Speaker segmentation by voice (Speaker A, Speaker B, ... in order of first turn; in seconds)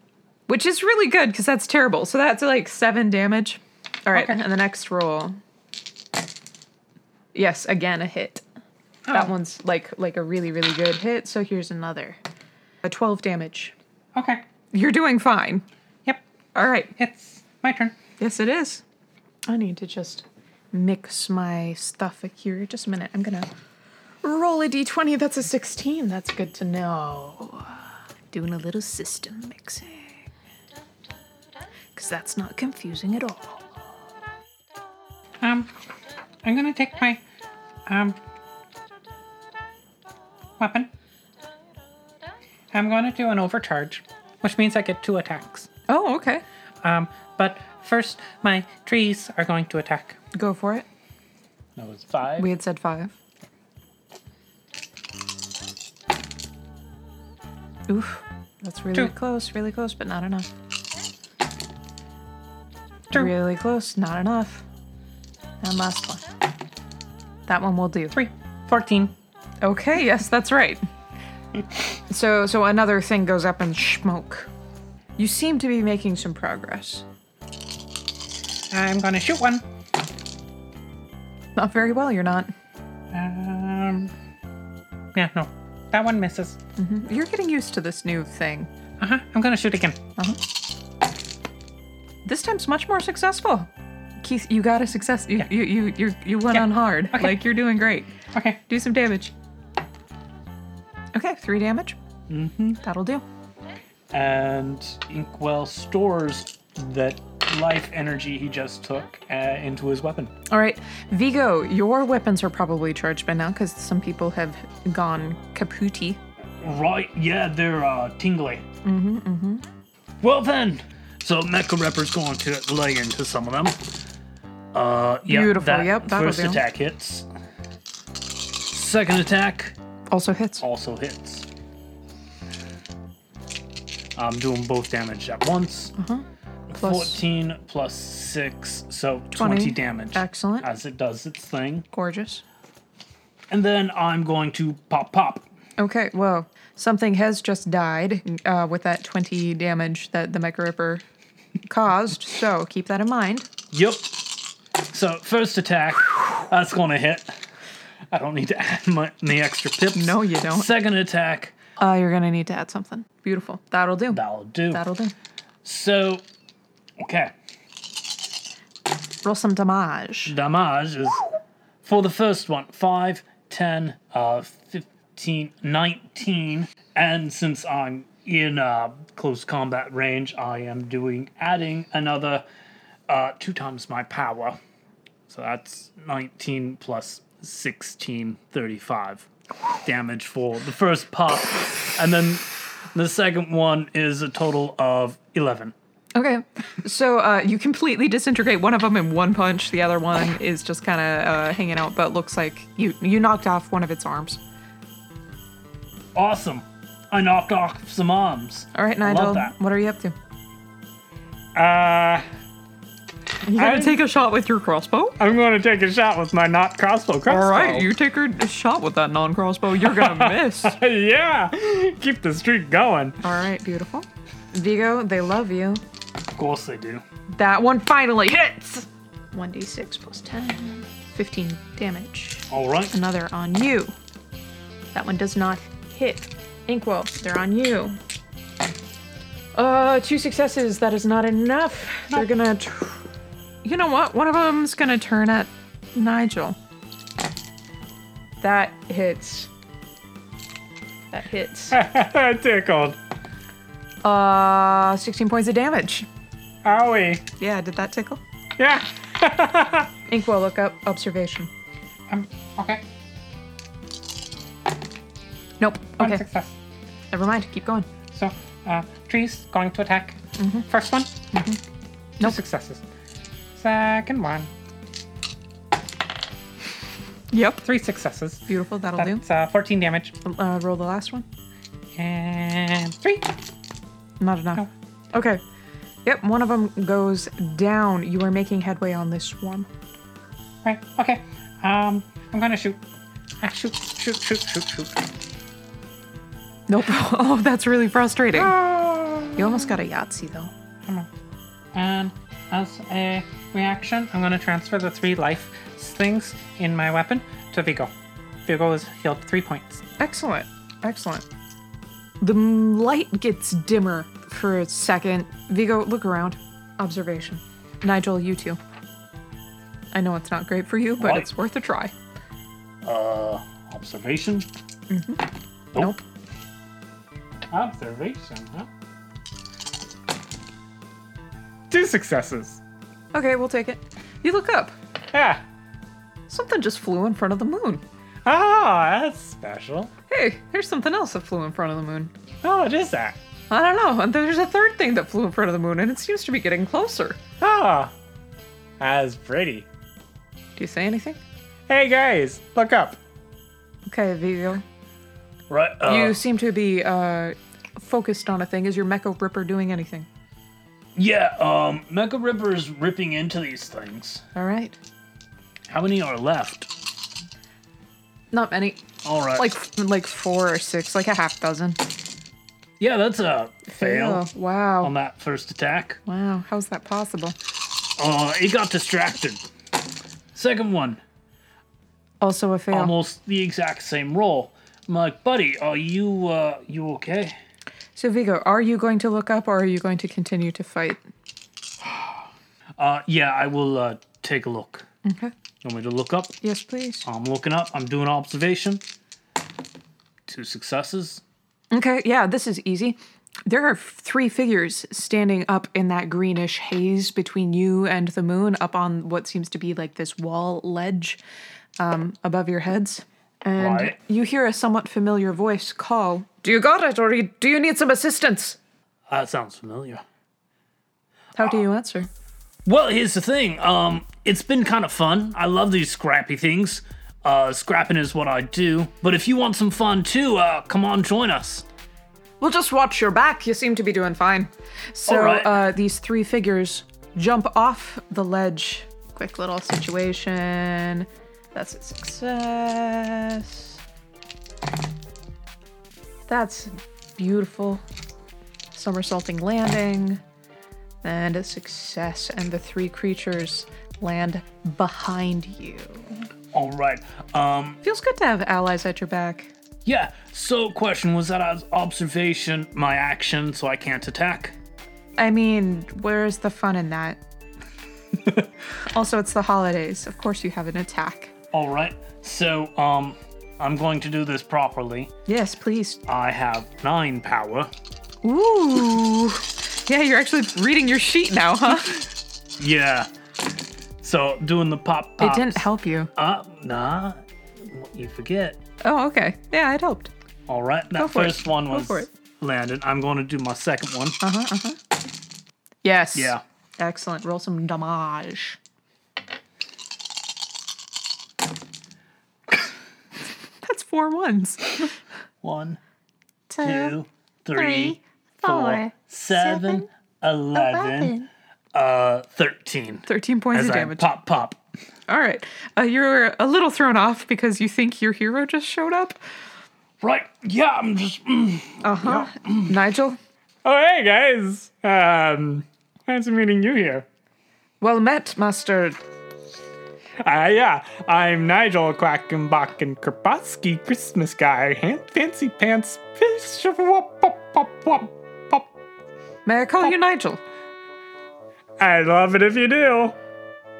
Speaker A: 0.5-5.4, 7.3-8.4, 9.1-12.2, 12.8-13.7, 14.7-15.6, 16.5-16.9, 18.2-18.8, 19.5-23.5, 24.2-30.2, 31.9-33.7, 45.9-46.4, 50.3-50.9, 52.4-53.1, 57.9-60.5, 63.1-64.6, 65.6-66.2, 67.5-68.2, 69.6-70.8, 72.1-74.5, 75.2-77.0, 81.5-82.5, 86.8-88.7, 92.2-93.7, 94.2-98.1, 98.7-99.3, 101.1-102.0, 102.8-103.2, 110.5-116.2, 118.8-119.6, 125.3-126.6, 130.1-130.6, 135.9-137.2, 139.3-140.7, 141.9-142.4, 145.8-151.0, 151.7-153.5, 159.9-160.7, 161.8-165.1, 169.2-170.3, 196.1-204.4, 208.7-210.1, 213.4-215.2, 217.3-220.8, 223.2-225.8, 227.3-233.9, 234.9-238.0, 239.5-243.0, 243.6-246.6, 248.4-249.5, 251.1-251.8, 254.0-256.1, 257.4-258.2, 260.1-261.5, 265.6-266.2, 267.1-267.9, 270.4-270.7, 271.3-271.6, 277.3-277.6, 278.5-279.2, 280.2-281.2, 284.2-285.4, 286.0-289.7, 296.7-298.6, 299.3-300.5, 310.0-311.2, 312.2-318.6, 319.9-321.9, 324.9-325.2, 325.7-326.0, 333.1-334.7, 336.3-337.8, 340.1-342.1, 343.5-347.2, 350.6-351.2, 353.9-354.6, 355.8-360.1, 364.3-364.8, 368.3-371.8, 373.7-374.9, 376.1-377.4, 382.2-382.9, 387.9-391.0, 395.0-395.3, 396.4-397.0, 401.7-411.2, 411.8-418.6, 421.4-422.1, 432.4-443.8, 446.3-447.8, 448.7-450.2, 451.0-456.1, 457.8-459.5, 465.2-467.2, 468.9-471.3, 475.3-476.0, 478.2-482.0, 485.2-486.1, 488.8-490.1, 490.9-492.1, 494.2-494.8, 495.8-498.6, 503.6-504.9, 506.5-506.9, 508.4-508.9, 513.0-514.1, 515.1-519.2, 521.8-523.2, 527.8-529.0, 539.4-540.4
Speaker B: 4.1-4.4, 9.1-9.3, 14.1-14.4, 17.0-17.9, 35.4-35.7, 36.4-37.2, 37.9-38.2, 40.6-40.9, 42.7-45.7, 46.8-50.2, 68.1-69.1, 78.7-79.6, 83.1-84.1, 85.1-86.6, 89.0-90.0, 96.5-97.4, 98.3-98.6, 262.1-262.8, 266.0-266.5, 268.1-271.1, 272.2-272.8, 273.5-274.5, 277.6-278.4, 279.0-280.1, 281.9-283.3, 290.6-292.8, 293.4-295.0, 298.4-299.7, 301.7-307.9, 308.4-309.8
Speaker C: 51.8-52.5, 102.3-102.8, 104.1-110.3, 116.6-118.7, 120.2-123.8, 124.7-127.2, 128.6-129.8, 130.6-131.5, 134.2-135.9, 136.7-141.9, 143.5-145.4, 153.7-154.1, 154.9-157.3, 158.1-161.5, 164.1-164.8, 165.6-166.2, 167.0-167.3, 170.3-171.3, 171.8-182.4, 183.1-184.6, 185.3-189.3, 189.8-195.7, 206.1-209.5, 226.3-227.0, 232.5-232.9, 321.0-321.3, 322.8-324.5, 355.5-356.2, 360.9-364.2, 365.7-366.7, 369.0-369.5, 372.8-374.3, 374.8-376.0, 378.0-379.4, 380.3-381.0, 382.7-387.4, 392.8-394.9, 395.6-396.4, 397.0-398.8, 400.3-401.2, 413.6-414.0, 419.1-420.0, 422.6-431.6, 435.1-435.6, 456.5-457.8, 459.8-464.6, 471.5-475.1, 476.1-477.7, 482.6-483.1, 484.0-488.6, 490.5-494.2, 496.1-496.4, 505.4-505.8, 506.6-511.2, 511.7-514.6, 520.0-522.7
Speaker D: 211.5-212.2, 213.5-214.0, 215.2-217.9, 219.8-223.2, 251.7-253.0, 256.6-257.2, 258.6-259.9, 327.5-328.7, 331.7-332.6, 335.1-335.4, 338.2-339.9, 342.4-343.2, 347.4-347.9, 348.8-349.6, 351.7-353.0, 523.6-527.0, 530.2-538.7, 541.8-543.2